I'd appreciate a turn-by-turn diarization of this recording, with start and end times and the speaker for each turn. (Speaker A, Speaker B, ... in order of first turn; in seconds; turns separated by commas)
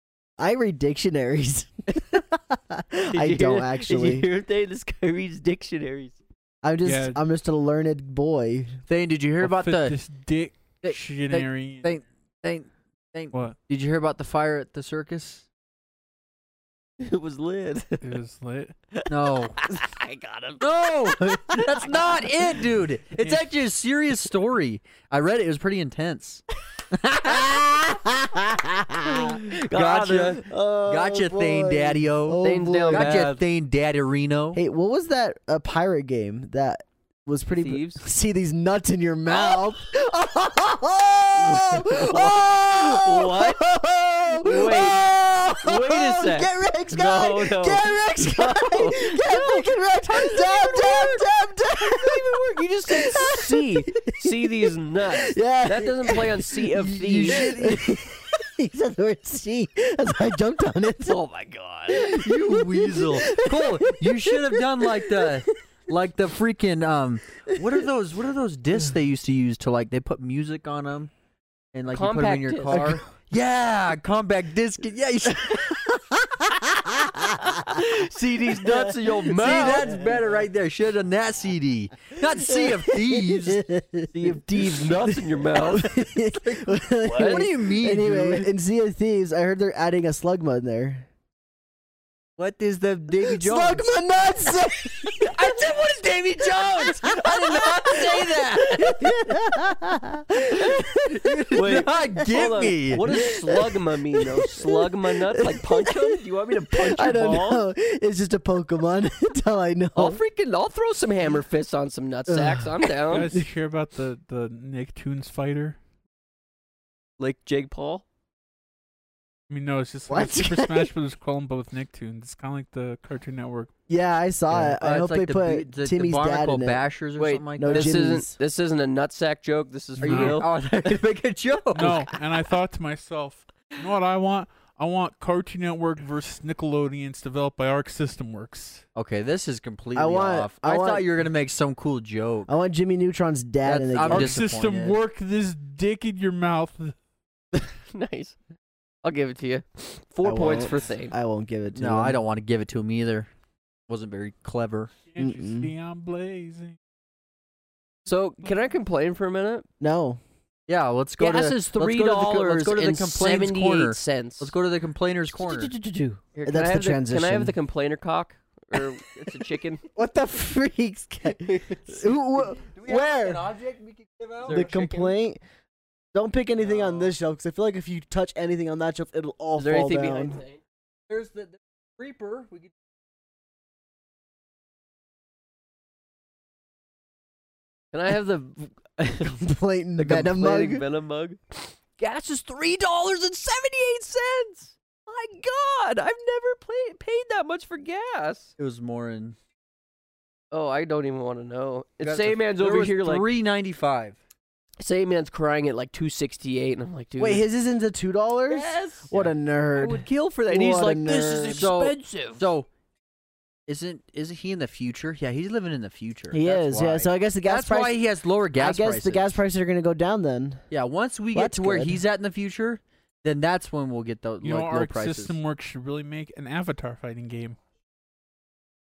Speaker A: 0.4-4.3, Speaker B: 3.1-6.2, Speaker A: 6.6-8.8, Speaker C: 6.8-7.2, Speaker D: 8.9-10.0, Speaker C: 9.4-11.9, Speaker D: 10.8-15.4, Speaker B: 17.0-18.2, Speaker C: 18.0-18.7, Speaker B: 18.9-22.5, Speaker D: 19.1-19.6, Speaker D: 20.6-26.4, Speaker D: 27.0-27.8, Speaker A: 27.2-29.3, Speaker B: 29.0-30.4, Speaker D: 29.5-34.6, Speaker A: 30.4-33.2, Speaker B: 32.4-33.4, Speaker A: 34.5-56.7, Speaker B: 37.5-38.0, Speaker B: 41.4-43.6, Speaker B: 44.3-51.2, Speaker B: 51.8-57.5, Speaker D: 56.7-58.0, Speaker A: 57.3-61.2, Speaker B: 61.0-62.1, Speaker A: 61.9-65.5, Speaker D: 62.1-71.1, Speaker D: 71.7-76.0, Speaker B: 71.9-72.8, Speaker A: 72.7-73.0, Speaker A: 76.6-77.8, Speaker B: 77.3-80.0, Speaker A: 78.6-80.2, Speaker D: 79.3-83.6, Speaker A: 82.4-91.1, Speaker B: 84.1-86.0, Speaker D: 86.4-88.5, Speaker B: 87.0-87.4, Speaker D: 92.4-93.9, Speaker A: 93.2-95.3, Speaker D: 95.2-99.1, Speaker A: 96.8-101.5, Speaker D: 101.1-103.2, Speaker B: 101.5-107.7, Speaker A: 103.1-110.2, Speaker B: 109.9-113.3, Speaker A: 112.3-112.8, Speaker C: 113.1-115.8, Speaker B: 117.2-118.0, Speaker C: 119.5-123.7, Speaker A: 120.1-120.9, Speaker A: 123.9-126.8, Speaker D: 124.5-128.0, Speaker B: 127.2-130.5, Speaker A: 127.6-128.3, Speaker D: 130.0-132.1, Speaker C: 130.0-130.4, Speaker C: 131.7-138.8, Speaker D: 138.9-142.5, Speaker A: 139.9-141.1, Speaker A: 142.5-144.4, Speaker D: 143.6-145.0, Speaker C: 144.1-146.9, Speaker B: 147.5-148.3, Speaker B: 149.0-151.1, Speaker A: 150.2-152.2, Speaker D: 151.7-153.3, Speaker D: 153.9-154.9, Speaker C: 155.1-156.8, Speaker A: 155.2-155.7, Speaker B: 158.1-159.7, Speaker A: 159.8-160.2, Speaker D: 160.7-165.7, Speaker B: 161.2-164.5, Speaker A: 165.3-167.5, Speaker B: 166.3-169.8, Speaker A: 169.9-173.4, Speaker B: 171.5-172.0, Speaker D: 172.6-174.7, Speaker B: 174.4-175.1, Speaker A: 174.5-175.4, Speaker A: 176.1-180.4, Speaker B: 179.6-180.6, Speaker D: 181.1-182.7, Speaker B: 187.9-189.4, Speaker A: 189.4-190.8, Speaker B: 190.0-198.5, Speaker D: 198.6-199.3, Speaker B: 200.5-203.3, Speaker D: 202.0-204.2, Speaker B: 204.8-207.4, Speaker A: 207.2-211.7, Speaker B: 208.5-212.4, Speaker D: 211.5-212.7, Speaker D: 213.7-219.4, Speaker A: 216.3-218.0, Speaker A: 218.6-220.6, Speaker D: 220.7-225.3, Speaker A: 221.3-222.0, Speaker C: 224.4-227.6